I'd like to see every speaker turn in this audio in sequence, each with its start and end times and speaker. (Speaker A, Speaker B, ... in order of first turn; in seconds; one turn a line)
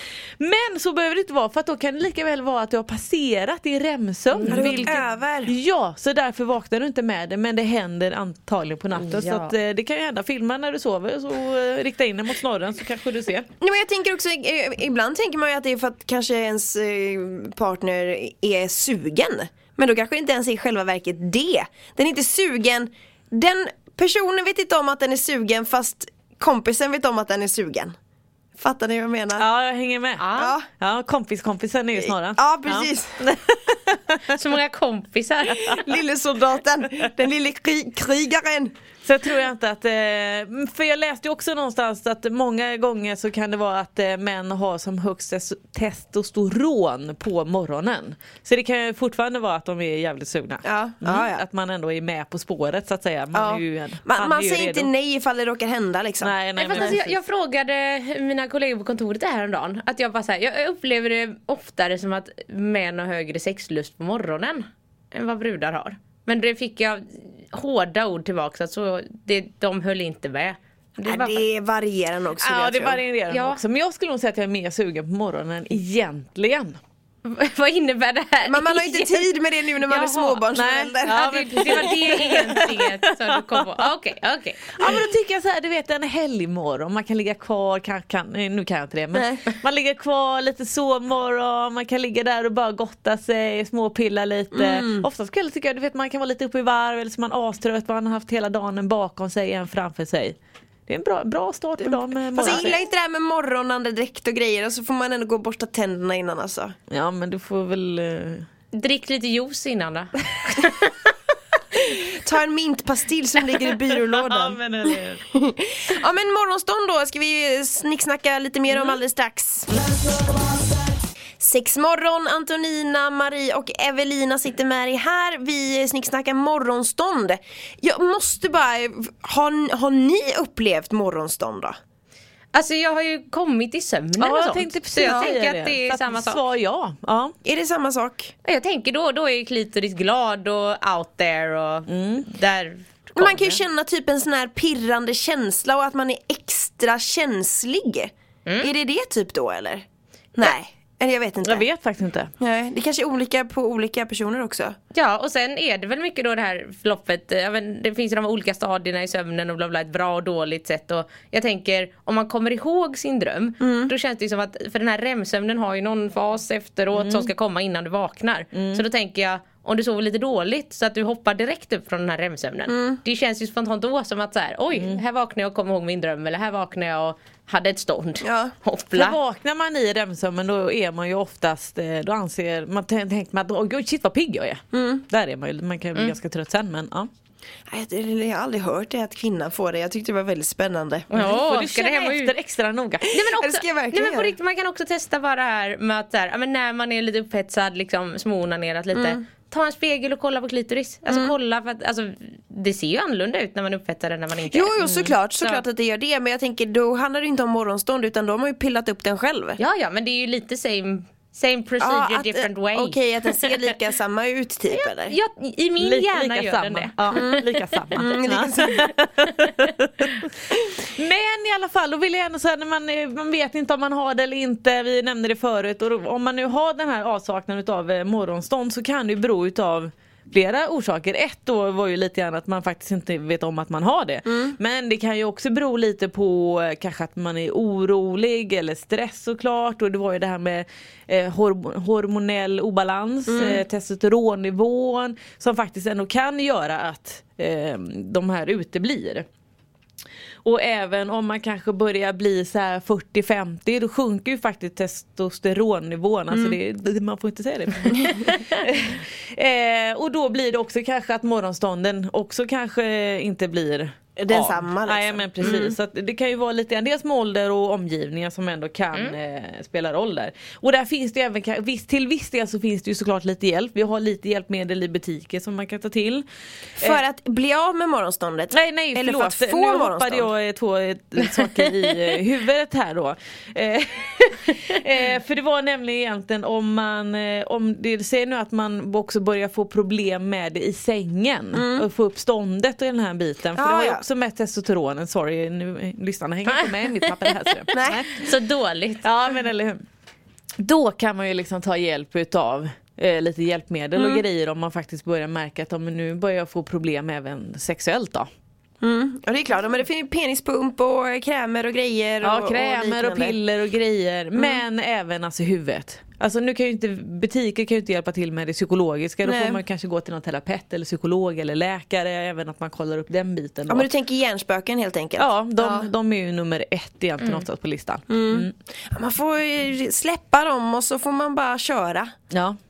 Speaker A: 0.4-13.5
Speaker B: 4.3-5.0
Speaker C: 4.4-5.5
Speaker B: 8.9-9.5
Speaker C: 13.6-27.9
Speaker C: 28.6-29.4
Speaker A: 29.4-34.2
Speaker B: 30.2-30.5
Speaker C: 30.3-30.6
Speaker C: 32.0-33.2
Speaker B: 34.3-35.6
Speaker C: 35.5-38.7
Speaker A: 39.0-54.9
Speaker C: 50.6-51.4
Speaker C: 53.3-57.0
Speaker A: 56.2-57.2
Speaker B: 56.6-71.4
Speaker C: 71.0-73.0
Speaker A: 72.4-76.8
Speaker B: 73.3-73.6
Speaker B: 77.2-79.3
Speaker C: 78.4-81.9
Speaker B: 79.8-80.4
Speaker A: 80.5-83.8
Speaker B: 81.0-85.0
Speaker A: 84.8-100.3
Speaker C: 89.1-89.5
Speaker C: 94.5-95.0
Speaker A: 100.9-102.8
Speaker C: 102.3-106.7
Speaker A: 106.9-108.5
Speaker B: 108.7-111.1
Speaker C: 111.8-119.7
Speaker A: 113.5-115.2
Speaker C: 121.4-131.8
Speaker B: 132.5-136.4
Speaker A: 134.2-137.3
Speaker C: 135.0-135.3
Speaker C: 137.4-138.3
Speaker B: 138.4-143.6
Speaker A: 141.9-142.3
Speaker C: 143.2-149.8
Speaker C: 150.3-151.6
Speaker A: 151.4-152.3
Speaker C: 152.4-154.8
Speaker B: 154.9-179.2
Speaker C: 163.6-163.9
Speaker A: 166.9-167.3
Speaker A: 168.5-168.8
Speaker C: 172.7-173.0
Speaker A: 174.7-175.0
Speaker C: 178.2-178.5
Speaker A: 178.9-187.1
Speaker C: 184.7-185.0
Speaker C: 187.7-191.2
Speaker B: 191.1-192.3
Speaker A: 191.1-193.2
Speaker C: 193.1-194.3
Speaker B: 193.1-205.6
Speaker C: 198.9-199.2
Speaker C: 201.1-201.3
Speaker C: 204.5-209.6
Speaker B: 209.6-213.7
Speaker C: 211.8-215.1
Speaker B: 214.7-218.1
Speaker A: 215.8-220.3
Speaker C: 217.1-217.4
Speaker C: 217.9-218.9
Speaker A: 220.8-249.2
Speaker C: 243.3-243.6
Speaker A: 250.4-276.2
Speaker C: 256.3-256.6
Speaker C: 264.2-265.7
Speaker C: 276.8-280.3
Speaker A: 278.5-298.3
Speaker C: 291.5-291.9
Speaker C: 293.6-294.0
Speaker B: 296.4-299.0
Speaker C: 297.7-298.0
Speaker A: 299.0-299.8
Speaker A: 300.6-308.3
Speaker C: 308.8-313.4
Speaker A: 312.2-323.9
Speaker C: 314.4-314.6
Speaker C: 319.2-319.6
Speaker C: 323.7-325.9
Speaker A: 325.2-328.5
Speaker C: 328.1-332.1
Speaker A: 332.3-332.6